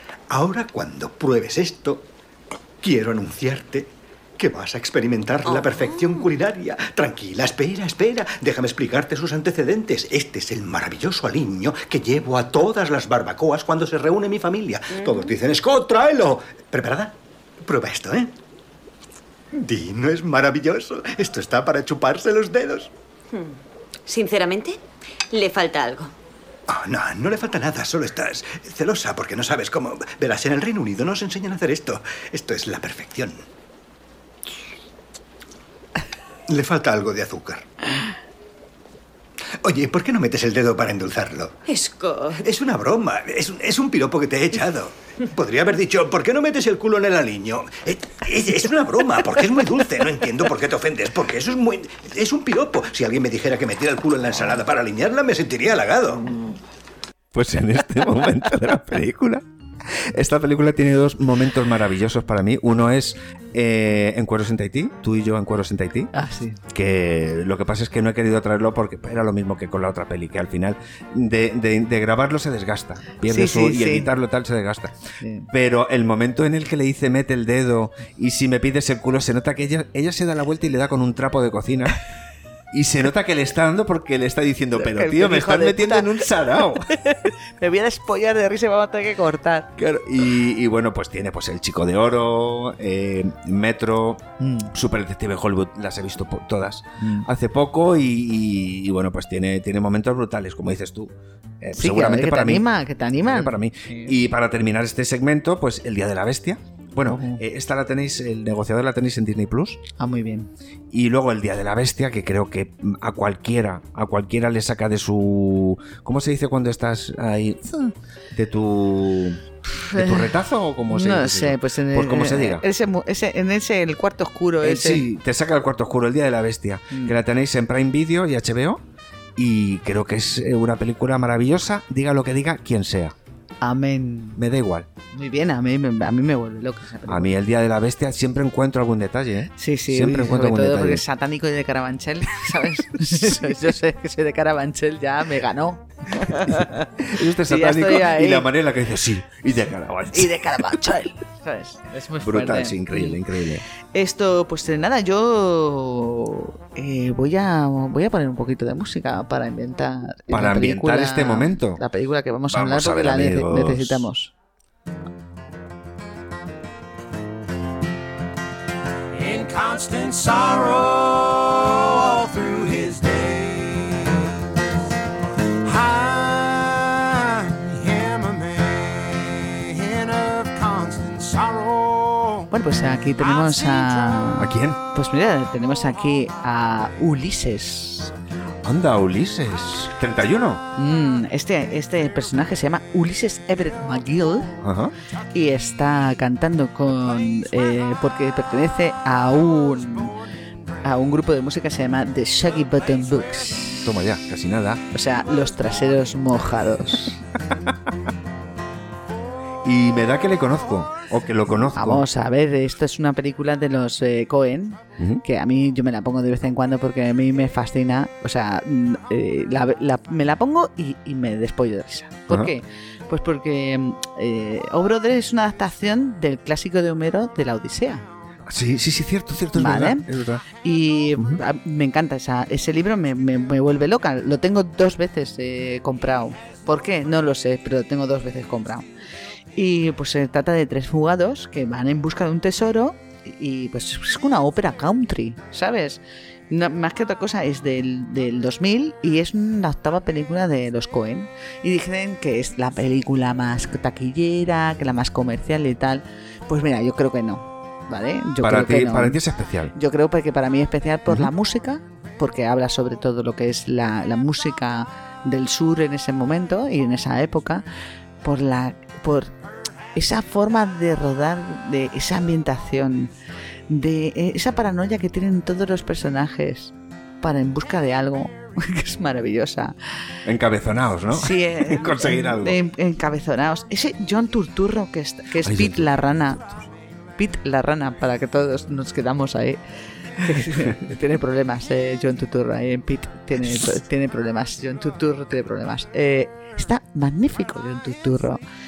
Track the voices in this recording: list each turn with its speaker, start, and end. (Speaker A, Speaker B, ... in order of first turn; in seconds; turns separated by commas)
Speaker A: 0.3-2.1, Speaker A: 2.8-18.3, Speaker B: 5.5-6.2, Speaker B: 15.0-15.3, Speaker A: 19.5-22.9, Speaker B: 23.3-24.8, Speaker B: 25.3-26.1, Speaker A: 26.7-33.4, Speaker A: 36.5-37.7, Speaker A: 39.6-41.5, Speaker B: 41.7-42.4, Speaker A: 42.4-56.4, Speaker C: 57.3-66.1, Speaker D: 66.1-66.6, Speaker C: 66.7-75.0, Speaker D: 73.2-74.1, Speaker D: 75.2-75.5, Speaker C: 75.5-82.0, Speaker C: 82.7-87.0, Speaker D: 84.7-89.7, Speaker C: 89.8-102.7, Speaker D: 94.4-94.7, Speaker D: 97.0-97.3, Speaker D: 101.7-104.2, Speaker C: 103.2-109.8, Speaker D: 107.0-107.4, Speaker D: 110.0-110.5, Speaker C: 110.9-117.7, Speaker C: 118.3-122.6, Speaker D: 119.7-120.3, Speaker D: 120.9-125.1, Speaker C: 124.6-128.8, Speaker D: 126.9-127.2, Speaker C: 129.4-133.1, Speaker D: 133.6-134.4, Speaker C: 134.4-134.9, Speaker D: 135.1-137.4, Speaker C: 137.1-141.0, Speaker D: 139.6-148.5, Speaker C: 146.5-150.7, Speaker D: 150.1-153.2, Speaker C: 152.2-153.6, Speaker D: 153.9-164.3, Speaker C: 160.3-161.8, Speaker C: 162.5-164.1, Speaker E: 169.1-174.4, Speaker E: 175.6-182.5, Speaker D: 182.5-188.1, Speaker C: 184.4-184.8, Speaker C: 188.6-190.6, Speaker D: 190.8-194.6, Speaker C: 194.6-194.9, Speaker D: 195.3-200.1, Speaker D: 200.8-203.9, Speaker C: 203.8-204.8, Speaker D: 204.9-207.2, Speaker C: 209.6-212.1, Speaker D: 211.7-228.1, Speaker C: 215.0-215.2, Speaker C: 228.4-230.4, Speaker D: 229.5-238.9, Speaker D: 239.6-259.2, Speaker C: 258.4-259.7, Speaker D: 259.7-267.6, Speaker D: 268.2-269.3, Speaker D: 269.9-273.1, Speaker D: 273.7-279.7, Speaker C: 280.2-282.6, Speaker D: 281.1-286.4, Speaker C: 285.4-285.9, Speaker D: 287.2-289.6, Speaker D: 290.1-298.4